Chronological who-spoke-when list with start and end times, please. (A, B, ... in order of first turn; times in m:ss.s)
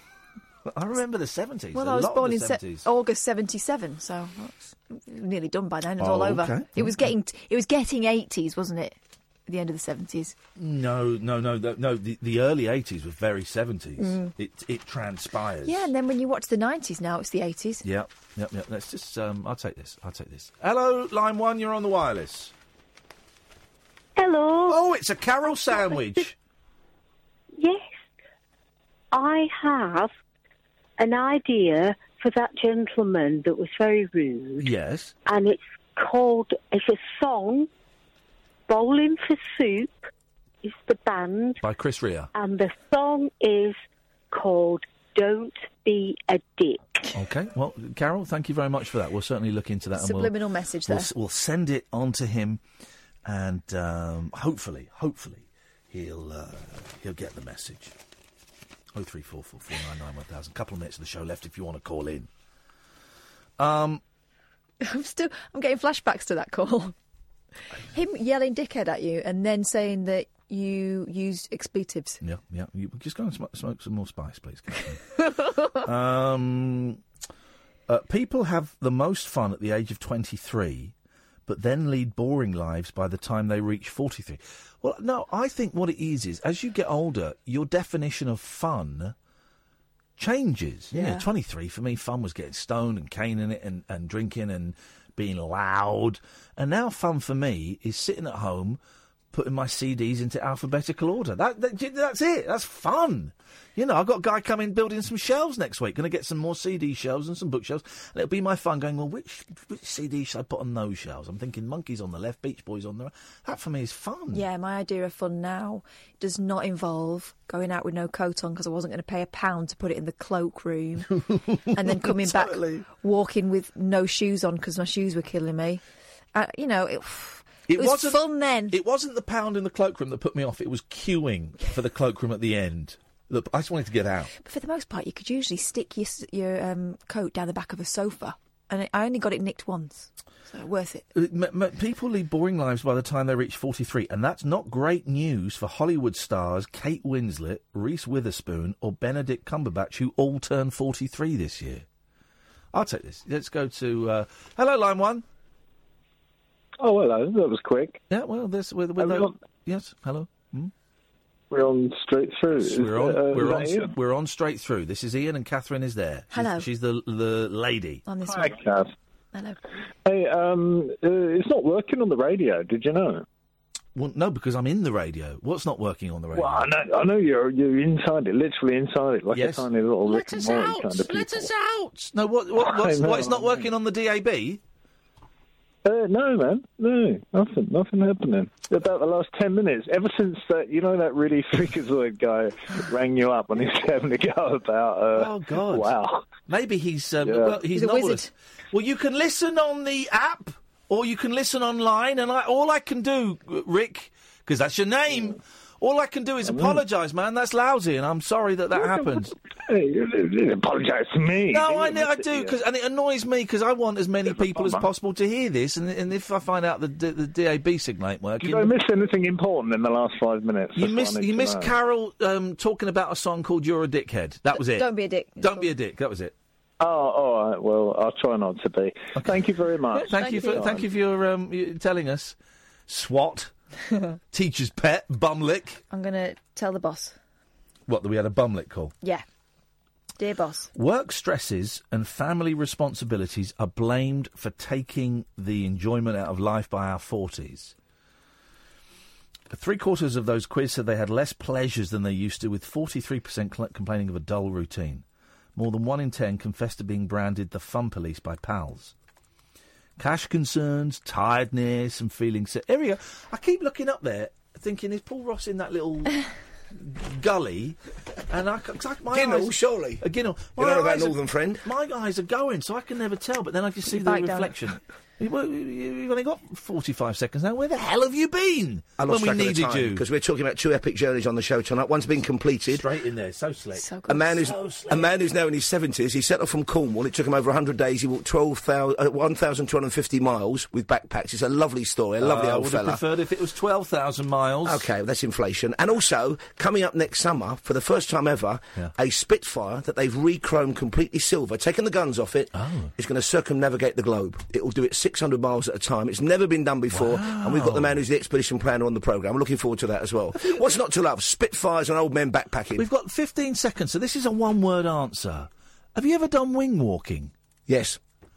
0:00.6-0:02.9 A
0:01.7-0:09.0 B
0:06.0-0:07.1 A
0:09.5-0:10.3 B
0:10.6-0:15.9 A
0:14.0-0:14.3 B
0:15.6-0:17.8 B
0:17.8-0:22.5 A
0:24.2-0:24.8 C
0:24.7-0:26.4 A
0:25.7-0:26.1 C
0:27.6-0:27.9 C
0:29.1-0:30.1 C
0:31.0-0:34.7 C
0:34.6-0:35.1 A
0:35.2-0:37.7 C
0:38.7-0:39.9 C
0:40.6-0:41.6 C
0:41.6-0:42.3 A
0:42.3-0:43.8 C
0:44.3-0:47.1 C
0:47.1-0:50.3 A
0:50.0-0:51.1 B
0:50.8-0:52.6 A
0:53.2-0:57.9 A
0:58.9-1:02.3 A
1:03.6-1:04.0 A
1:04.8-1:06.9 B
1:07.9-1:12.2 B
1:12.2-1:15.1 A
1:15.7-1:17.0 A
1:17.9-1:20.9 A
1:21.5-1:29.1 A
1:30.2-1:38.8 A
1:30.9-1:31.2 B
1:39.3-1:54.4 A
1:54.3-2:01.2 B
2:01.2-2:02.8 A
2:01.7-2:05.8 B
2:06.3-2:08.7 B
2:07.7-2:14.3 A
2:14.4-2:21.0 B
2:21.1-2:31.8 A
2:32.7-2:35.2 A
2:36.8-2:38.0 D
2:38.1-2:40.7 A
2:39.0-2:39.4 D
2:41.5-2:43.9 D
2:42.6-2:48.0 A
2:46.3-2:46.6 B
2:48.1-2:48.6 B
2:48.2-2:48.9 D
2:50.0-2:53.2 D
2:53.9-2:56.7 A
2:56.3-3:01.5 D
2:59.3-3:04.6 A
3:02.6-3:03.7 D
3:05.8-3:16.3 D
3:15.1-3:15.9 A
3:16.4-3:29.3 A
3:17.2-3:17.6 D
3:17.7-3:18.3 B
3:26.4-3:26.8 D
3:28.7-3:32.6 D
3:31.5-3:38.8 A
3:34.2-3:34.9 D
3:38.4-3:41.8 D
3:40.7-3:44.9 A
3:44.6-3:45.7 B
3:45.4-3:46.3 A
3:46.8-3:50.8 D
3:49.2-3:49.4 A
3:50.0-3:52.4 A
3:50.1-3:50.7 B
3:52.9-3:53.5 A
3:54.3-3:55.8 A
3:55.9-3:57.2 B
3:57.9-3:58.9 A
4:00.2-4:00.7 B
4:00.7-4:07.7 A
4:09.5-4:15.0 A
4:15.6-4:18.9 A
4:20.0-4:27.8 A
4:28.3-4:40.0 A
4:29.1-4:30.0 E
4:30.6-4:31.6 E
4:33.9-4:34.5 B
4:39.0-4:42.8 E
4:42.7-4:43.9 A
4:43.7-4:44.4 B
4:44.1-4:53.0 E
4:44.4-4:45.0 A
4:52.2-4:54.9 A
4:54.6-5:12.8 E
5:02.5-5:02.9 A
5:06.9-5:08.0 A
5:12.7-5:17.3 A
5:17.7-5:18.0 E